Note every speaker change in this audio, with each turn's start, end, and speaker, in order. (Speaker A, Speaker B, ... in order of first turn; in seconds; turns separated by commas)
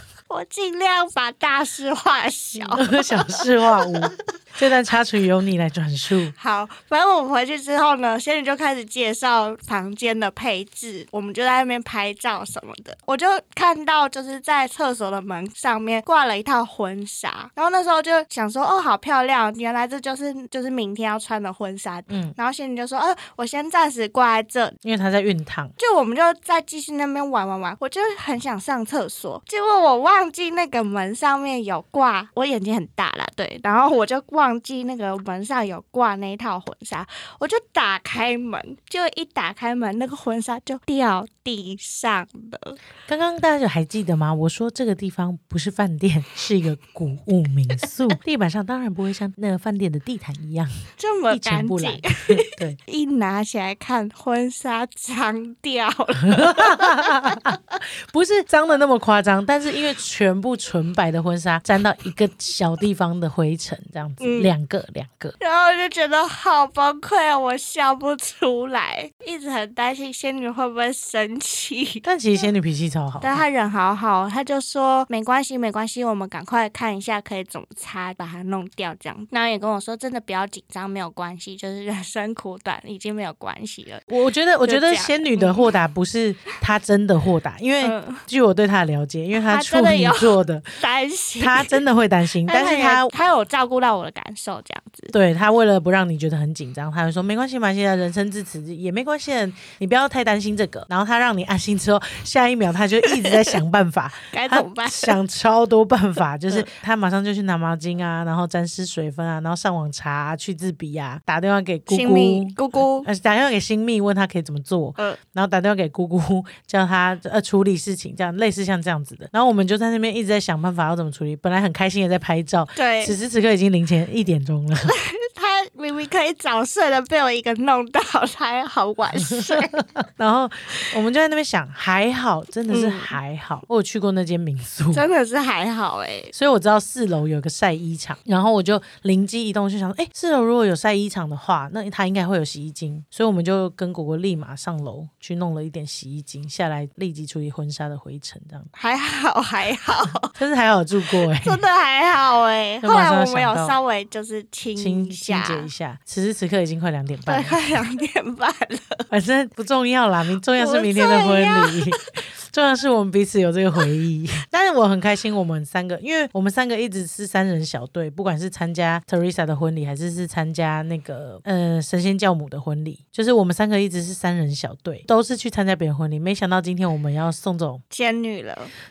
Speaker A: 0.3-4.1, Speaker B: 2.6-6.3, Speaker A: 6.3-24.8, Speaker B: 22.1-22.3, Speaker B: 24.8-25.7, Speaker A: 25.8-42.8, Speaker B: 43.1-52.8, Speaker A: 51.0-57.6, Speaker B: 56.2-65.3, Speaker A: 64.2-64.5, Speaker A: 65.4-72.0, Speaker B: 72.0-73.4, Speaker A: 73.2-84.1, Speaker B: 84.1-90.8, Speaker A: 84.6-85.7, Speaker A: 87.8-88.2, Speaker A: 89.3-91.8, Speaker B: 91.4-93.1, Speaker A: 92.5-95.1, Speaker B: 95.1-124.9, Speaker A: 104.3-105.2, Speaker A: 111.9-113.1, Speaker A: 122.8-123.2, Speaker A: 124.9-129.8, Speaker B: 129.2-135.0, Speaker A: 132.7-133.2, Speaker A: 134.9-136.3, Speaker B: 136.3-148.7, Speaker A: 148.7-150.3, Speaker B: 150.3-151.6, Speaker A: 151.1-155.7, Speaker B: 152.8-153.8, Speaker B: 154.8-157.8, Speaker A: 157.3-159.1, Speaker B: 159.1-177.8, Speaker A: 160.6-162.1, Speaker A: 177.9-178.7